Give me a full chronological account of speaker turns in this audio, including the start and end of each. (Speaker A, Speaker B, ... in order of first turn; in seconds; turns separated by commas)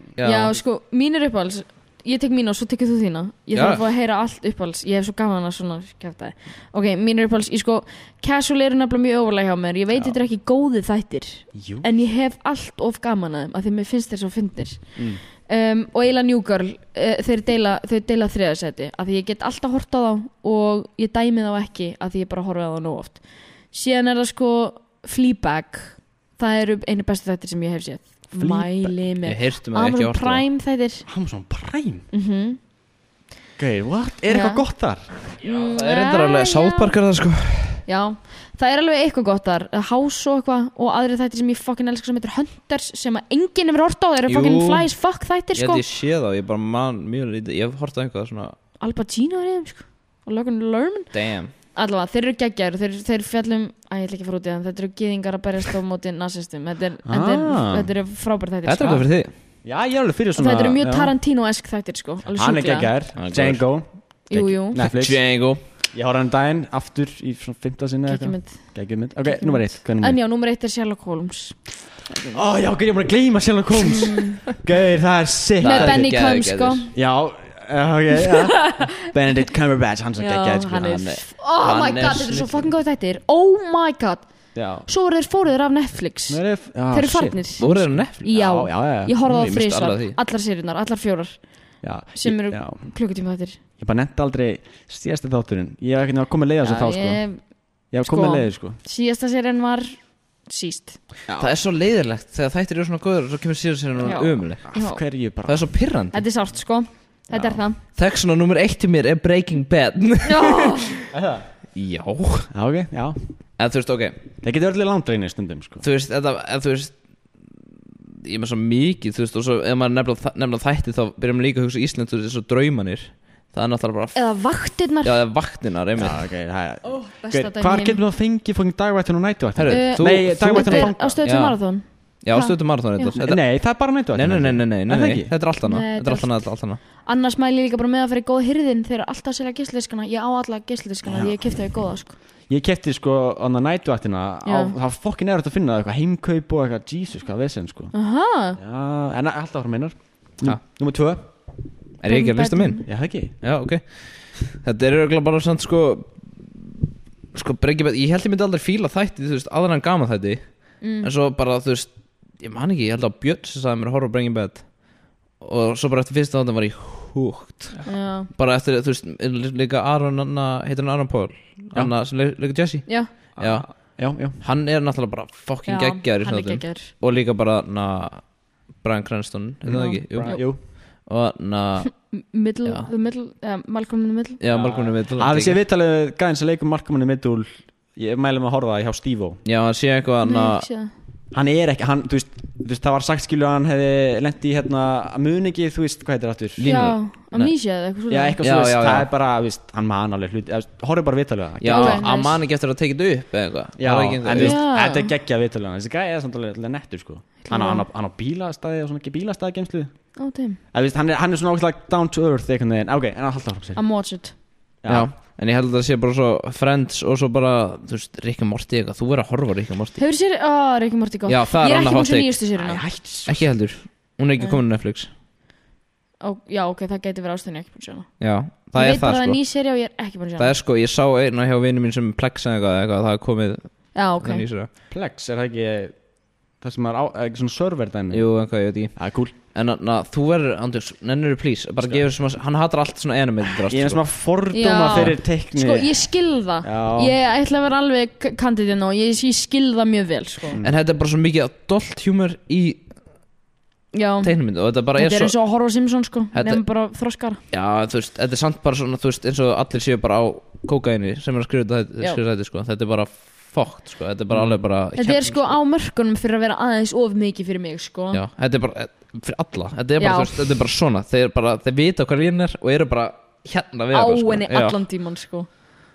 Speaker A: 0.2-0.6, Speaker B: 0.2-31.1, Speaker A: 3.5-3.8, Speaker C: 11.5-11.9, Speaker C: 14.9-15.2, Speaker C: 28.3-28.9, Speaker A: 29.2-30.4, Speaker C: 31.1-32.0, Speaker B: 32.1-32.6, Speaker C: 33.6-35.0, Speaker B: 34.3-34.6, Speaker B: 35.4-37.0, Speaker A: 35.4-37.8, Speaker B: 37.9-45.8, Speaker A: 44.3-44.9, Speaker A: 45.5-48.5, Speaker B: 48.8-51.1, Speaker A: 51.1-51.5, Speaker B: 51.7-59.1, Speaker C: 57.0-57.9, Speaker A: 58.6-59.3, Speaker C: 59.6-61.1, Speaker B: 60.4-62.9, Speaker C: 62.3-65.3, Speaker A: 63.1-63.6, Speaker B: 64.3-64.8, Speaker A: 64.8-65.6, Speaker C: 65.9-70.2, Speaker B: 68.1-68.6, Speaker B: 69.2-71.5, Speaker B: 72.1-72.4, Speaker C: 72.3-76.0, Speaker B: 73.9-74.4, Speaker A: 75.6-76.9, Speaker B: 75.6-76.9, Speaker C: 76.9-81.0, Speaker B: 78.3-78.9, Speaker B: 80.2-84.3, Speaker A: 80.7-82.7, Speaker C: 84.5-84.9, Speaker B: 84.8-91.4, Speaker C: 86.3-89.1, Speaker A: 87.6-88.2, Speaker A: 89.2-90.2, Speaker C: 91.8-92.8, Speaker B: 92.1-93.6, Speaker C: 93.8-97.2, Speaker B: 96.6-97.5, Speaker C: 97.9-98.8, Speaker B: 98.0-101.0, Speaker C: 101.3-101.5, Speaker A: 101.4-104.7, Speaker B: 104.0-105.0, Speaker C: 104.6-105.7, Speaker A: 105.4-106.2, Speaker B: 106.1-107.8, Speaker C: 107.3-107.6, Speaker A: 107.9-111.0, Speaker B: 110.2-110.9, Speaker C: 111.1-111.5, Speaker A: 111.7-112.5, Speaker C: 112.5-113.2, Speaker A: 113.6-114.2, Speaker C: 114.4-115.8, Speaker A: 115.8-117.0, Speaker A: 118.2-126.2, Speaker B: 124.1-125.2, Speaker C: 126.0-131.2, Speaker B: 126.8-128.0, Speaker A: 129.6-136.8, Speaker B: 129.7-133.2, Speaker C: 133.2-135.3, Speaker B: 135.6-142.2, Speaker C: 141.1-141.4, Speaker C: 142.5-147.9, Speaker B: 144.4-144.8, Speaker B: 147.9-148.6, Speaker C: 148.6-151.2, Speaker A: 152.0-152.8, Speaker B: 152.1-152.8, Speaker C: 152.8-153.3, Speaker A: 153.4-156.6, Speaker A: 157.3-182.1, Speaker B: 160.8-161.1, Speaker B: 167.8-168.3, Speaker C: 173.4-174.4, Speaker B: 175.7-176.9, Speaker C: 179.7-180.6, Speaker B: 179.7-180.5, Speaker B: 182.0-184.4, Speaker A: 184.4-185.6, Speaker C: 184.5-189.4, Speaker A: 189.4-190.7, Speaker B: 190.2-190.9, Speaker C: 191.3-196.7, Speaker A: 196.6-197.5, Speaker B: 196.6-198.4, Speaker C: 198.1-202.1, Speaker A: 198.4-199.1, Speaker A: 201.6-204.6, Speaker B: 201.7-202.4, Speaker C: 203.8-209.9, Speaker B: 204.3-205.1, Speaker B: 207.4-207.8, Speaker B: 210.2-210.6, Speaker C: 210.7-213.8, Speaker B: 213.8-214.3, Speaker C: 214.8-215.1, Speaker A: 214.9-220.0, Speaker B: 220.0-222.8, Speaker A: 221.3-222.4, Speaker C: 222.6-223.5, Speaker A: 223.2-225.1, Speaker B: 226.2-228.1, Speaker A: 228.2-229.4, Speaker B: 228.7-230.6, Speaker A: 230.4-234.7, Speaker B: 233.9-234.4, Speaker C: 234.9-235.9, Speaker C: 236.6-239.3, Speaker A: 238.1-244.0, Speaker C: 243.4-246.0, Speaker B: 244.5-250.6, Speaker C: 246.6-247.1, Speaker A: 250.6-252.9, Speaker B: 253.9-254.4, Speaker A: 254.2-255.3, Speaker B: 254.9-257.4, Speaker A: 256.3-256.6, Speaker A: 257.5-265.6, Speaker C: 264.3-264.6, Speaker B: 264.9-268.2, Speaker A: 268.1-274.8, Speaker B: 270.0-270.3, Speaker B: 273.9-275.5